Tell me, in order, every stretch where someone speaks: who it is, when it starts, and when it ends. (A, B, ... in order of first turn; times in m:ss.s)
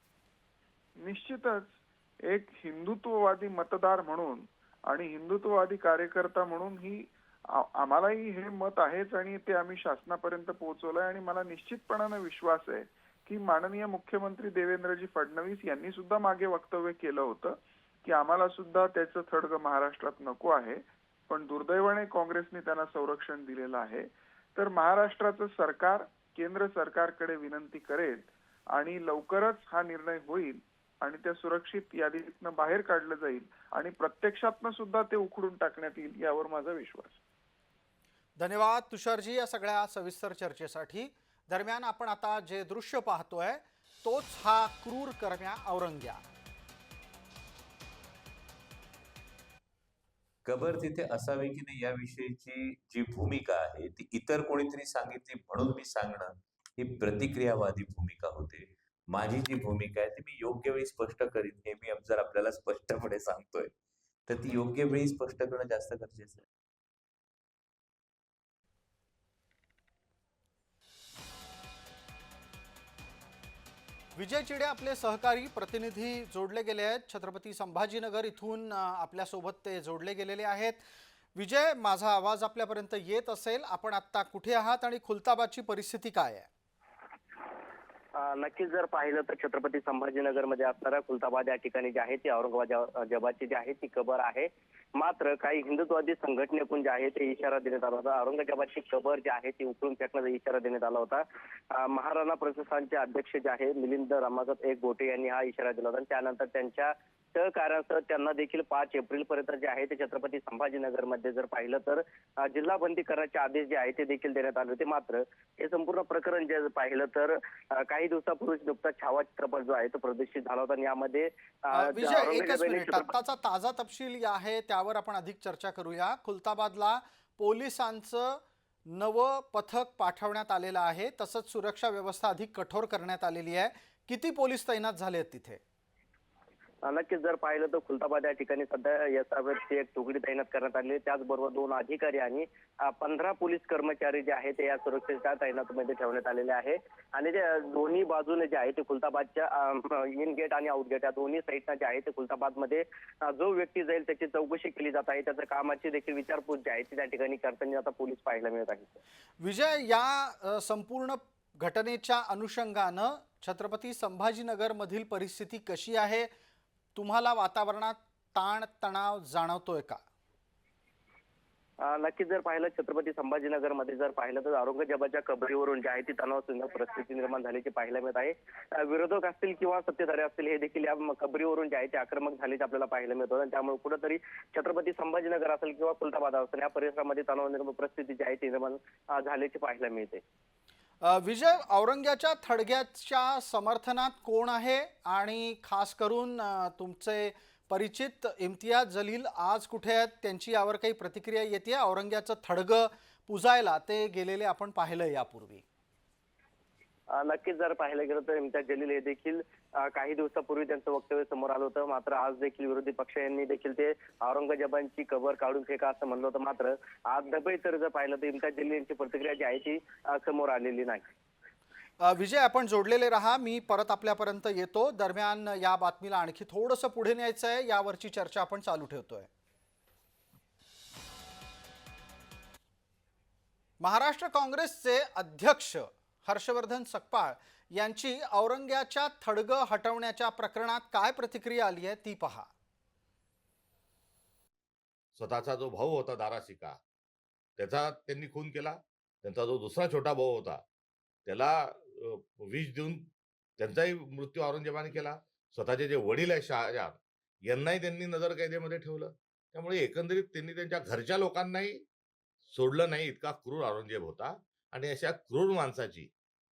0:01.0-0:37.2 A
0:38.4-0:46.2 B
0:50.4-1:03.7 C
1:04.3-1:06.5 C
1:14.2-1:20.8 B
1:21.4-1:26.5 B
1:28.2-2:03.1 D
2:01.7-2:15.6 B
2:16.8-2:39.0 D
2:39.4-2:46.3 B
2:47.0-2:50.0 B
2:51.8-3:10.2 D
3:11.0-3:25.6 B
3:27.1-3:41.1 D
3:42.0-3:49.3 B
3:53.8-4:02.5 B
4:05.2-4:06.8 E
4:07.6-4:10.6 E
4:11.3-4:21.8 E
4:22.5-4:26.1 E